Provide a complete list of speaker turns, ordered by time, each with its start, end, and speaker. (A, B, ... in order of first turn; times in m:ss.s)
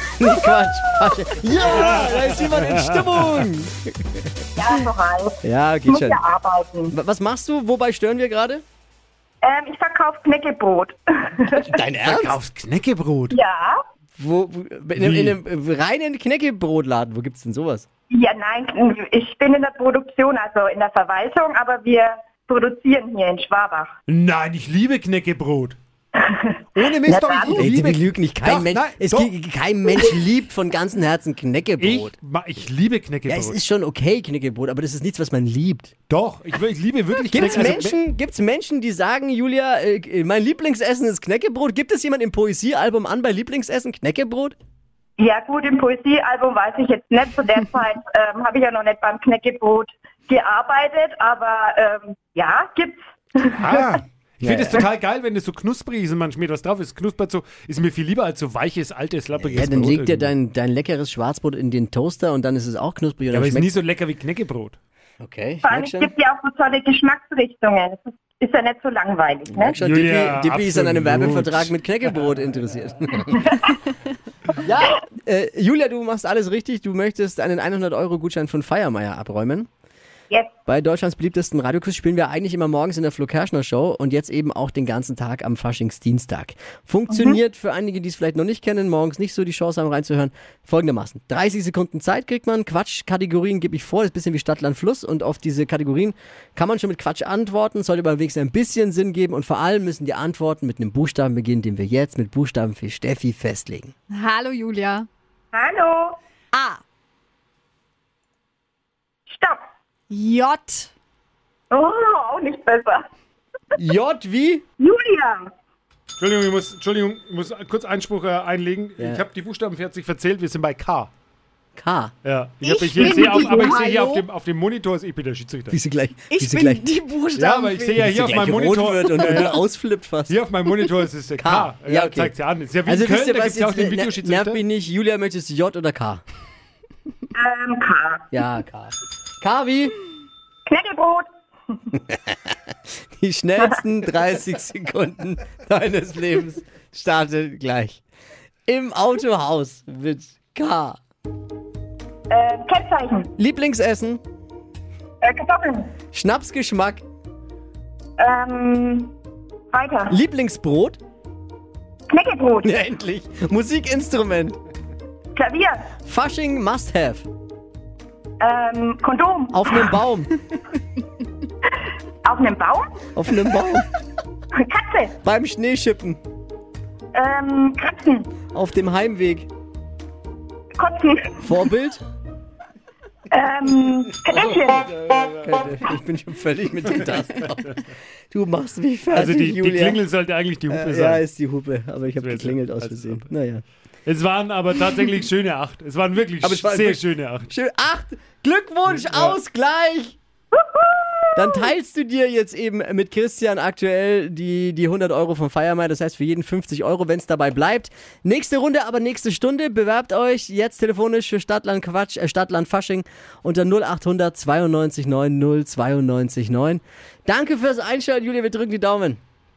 0:00.2-0:04.3 A
0:01.8-0:03.4 B
0:04.6-0:07.0 C
0:05.4-0:06.2 A
0:06.9-0:08.6 A
0:09.4-0:11.7 C
0:11.5-0:12.4 A
0:12.0-0:13.4 B
0:13.3-0:13.8 C
0:14.2-0:17.9 A
0:15.0-0:15.4 B
0:18.1-0:24.0 C
0:24.1-0:25.8 B
0:26.2-0:27.7 C
0:26.7-0:29.3 B
0:27.6-0:32.1 A
0:31.8-0:33.6 B
0:33.3-0:35.9 A
0:36.1-0:38.0 B
0:37.3-0:44.6 A
0:45.2-0:53.9 C
0:53.5-1:00.3 B
0:54.4-0:54.8 A
0:59.4-1:03.7 A
1:03.3-1:04.8 B
1:05.2-1:06.1 A
1:05.6-1:09.8 C
1:09.5-1:13.8 A
1:09.8-1:11.7 B
1:14.6-1:19.7 A
1:20.7-1:43.9 A
1:27.1-1:27.4 C
1:44.1-1:45.1 D
1:45.5-1:46.2 C
1:46.5-1:46.8 D
1:49.3-1:49.6 C
1:50.1-1:50.9 D
1:51.7-1:53.1 C
1:53.8-1:54.6 A
1:54.8-1:55.5 C
1:56.2-2:01.1 B
1:59.0-1:59.2 A
2:01.8-2:02.1 A
2:02.2-2:05.8 B
2:02.6-2:04.2 D
2:03.0-2:03.8 C
2:05.7-2:06.9 A
2:06.3-2:07.8 D
2:07.4-2:09.6 B
2:07.6-2:10.4 A
2:10.3-2:14.6 B
2:11.4-2:12.3 A
2:12.9-2:16.2 A
2:17.3-2:18.3 C
2:18.3-2:19.9 A
2:20.7-2:21.3 C
2:22.1-2:22.4 A
2:23.2-2:28.0 A
2:28.7-2:31.0 A
2:32.3-2:33.3 C
2:33.4-2:34.2 A
2:35.2-2:35.9 C
2:36.1-2:37.0 A
2:38.2-2:39.1 C
2:39.7-2:40.2 C
2:40.1-2:41.0 A
2:42.1-2:42.8 C
2:42.6-2:44.6 A
2:45.4-2:45.9 C
2:46.0-2:47.3 A
2:48.4-2:49.9 C
2:49.5-2:50.3 A
2:52.2-2:53.0 C
2:53.1-2:53.9 A
2:54.6-2:55.2 C
2:55.2-2:56.2 A
2:57.1-2:58.3 C
2:58.5-2:59.5 A
3:00.8-3:01.4 C
3:01.4-3:02.0 A
3:03.3-3:05.0 C
3:04.5-3:10.0 A
3:09.1-3:11.2 B
3:10.7-3:13.6 A
3:12.2-3:13.3 B
3:14.1-3:17.5 B
3:16.4-3:20.2 A
3:18.9-3:19.4 B
3:20.5-3:21.6 C
3:21.4-3:39.2 A